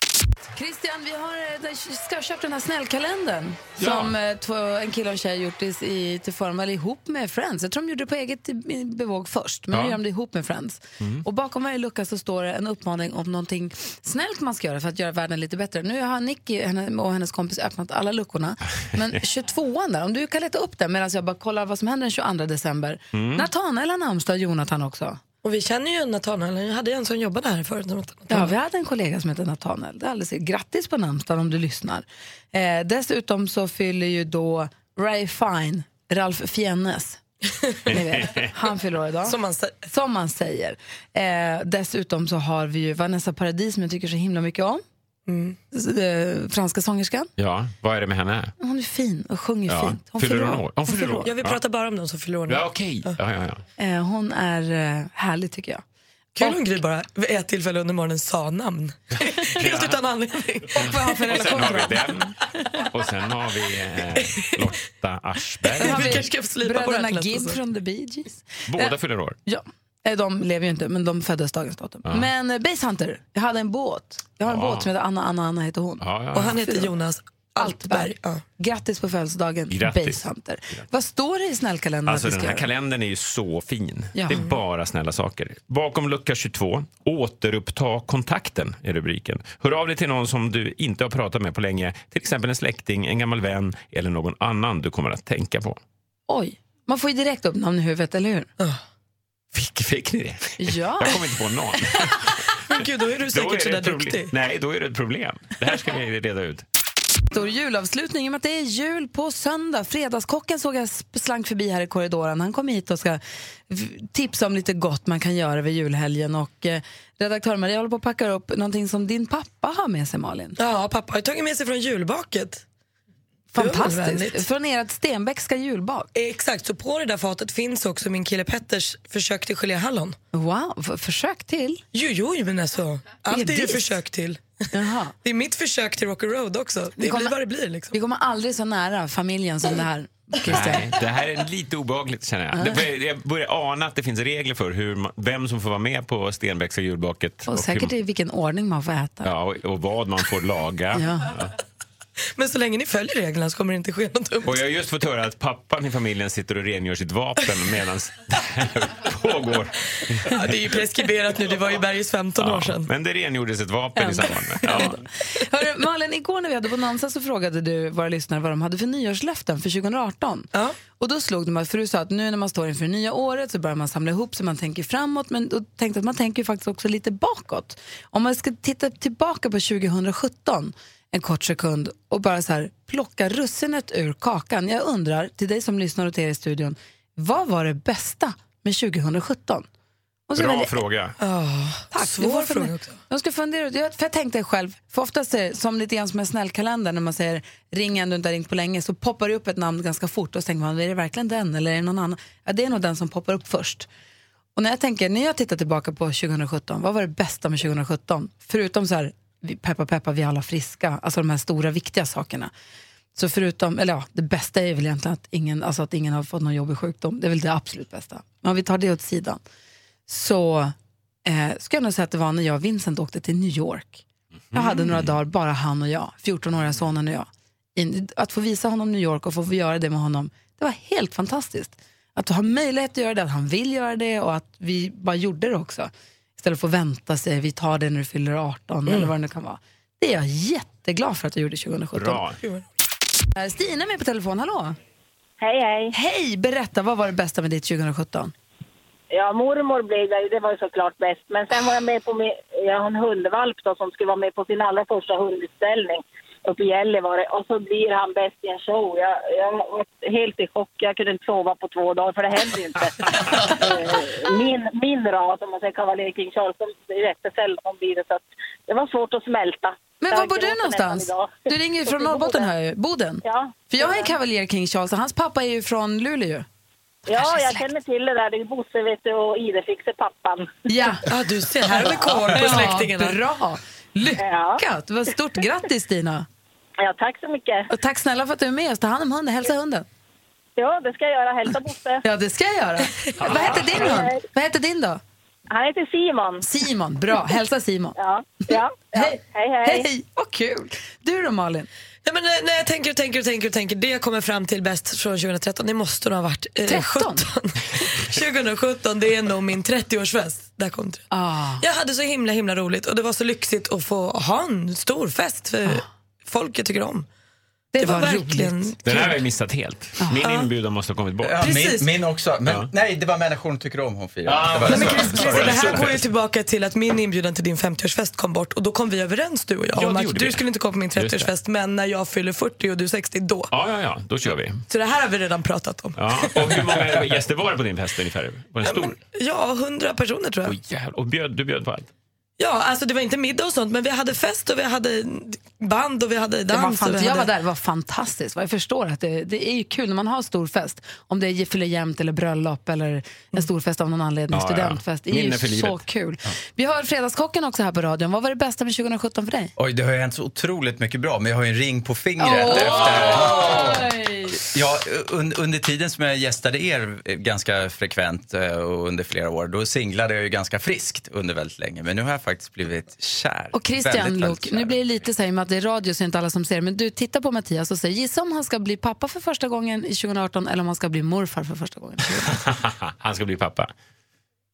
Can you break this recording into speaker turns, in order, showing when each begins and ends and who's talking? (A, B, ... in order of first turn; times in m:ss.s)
0:00.5-0:25.2 A
0:03.8-0:04.1 B
0:09.7-0:10.0 B
0:23.1-0:23.4 B
0:25.4-0:28.5 C
0:28.3-0:37.2 A
0:37.8-0:44.8 A
0:37.9-0:38.5 B
0:39.2-0:39.8 C
0:45.3-0:45.6 C
0:45.7-0:47.3 A
0:47.4-0:48.5 B
0:48.6-0:51.2 A
0:49.7-0:51.6 B
0:51.0-0:53.1 C
0:52.5-0:53.6 B
0:53.8-0:55.8 A
0:56.4-1:01.0 C
0:59.5-1:00.0 B
1:00.7-1:02.1 A
1:00.8-1:06.2 B
1:05.6-1:07.6 C
1:05.8-1:08.9 A
1:08.7-1:09.4 B
1:09.4-1:16.9 A
1:14.5-1:14.9 B
1:16.0-1:16.6 B
1:16.3-1:18.4 C
1:17.6-1:22.6 A
1:19.7-1:20.2 B
1:22.1-1:35.8 B
1:24.1-1:24.4 A
1:36.3-1:38.5 A
1:39.5-1:46.6 B
1:40.6-1:41.2 A
1:42.7-1:44.3 C
1:47.3-2:00.6 A
2:00.6-2:02.6 C
2:03.5-2:06.1 A
2:03.6-2:04.4 C
2:06.1-2:10.2 C
2:10.3-2:11.8 A
2:11.9-2:14.4 C
2:13.3-2:14.0 A
2:14.7-2:15.1 A
2:15.2-2:18.0 C
2:17.0-2:17.3 A
2:17.9-2:20.9 A
2:20.4-2:27.9 B
2:22.5-2:22.8 A
2:27.5-2:29.3 A
2:29.2-2:31.5 B
2:30.9-2:31.3 A
2:32.4-2:34.6 C
2:34.4-2:40.5 B
2:40.2-2:42.9 C
2:42.4-2:45.0 B
2:44.0-3:09.7 A
3:10.3-3:10.7 A
3:10.4-3:11.2 B
3:11.2-3:13.0 C
3:11.9-3:23.9 A
3:24.6-3:32.5 A
3:33.1-3:39.4 A
3:40.1-3:40.7 A
3:41.2-4:02.2 A
3:44.5-3:45.1 B
3:58.9-3:59.1 C
4:01.9-4:02.4 B
4:02.4-4:02.6 C
4:03.4-4:04.8 A
4:05.4-4:05.9 D
4:05.9-4:08.3 A
4:09.1-4:32.5 D
4:30.0-4:36.4 A
4:33.2-4:34.1 D
4:37.1-4:40.5 D
4:37.1-4:37.6 A
4:40.7-4:41.1 A
4:41.1-4:43.2 C
4:41.9-4:46.2 A
4:44.2-4:44.6 D
4:46.8-4:47.6 D
4:47.7-4:49.8 A
4:50.6-4:52.0 D
4:52.0-4:55.0 A
4:53.0-4:53.9 C
4:53.8-4:54.2 D
4:55.5-4:56.4 D
4:56.4-4:58.0 A
4:58.0-4:59.9 D
4:58.9-5:01.7 A
5:02.0-5:11.0 C
5:06.6-5:07.3 A
5:11.1-5:11.6 A
5:11.6-5:17.0 C
5:17.7-5:18.7 A
5:17.8-5:19.1 C
5:18.8-5:21.4 B
5:20.2-5:20.5 C
5:21.2-5:25.9 E
5:21.4-5:21.9 C
5:24.2-5:26.0 B
5:24.6-5:33.5 C
5:29.7-5:31.3 B
5:33.5-5:34.6 B
5:34.7-5:36.7 C
5:36.0-5:39.0 B
5:38.6-5:40.6 C
5:40.4-5:41.9 B
5:42.4-5:47.3 C
5:46.5-5:59.5 A
5:54.3-5:55.8 B
5:59.6-6:14.8 E
6:02.2-6:04.4 A
6:02.8-6:03.4 B
6:13.5-6:22.4 A
6:22.3-6:23.7 B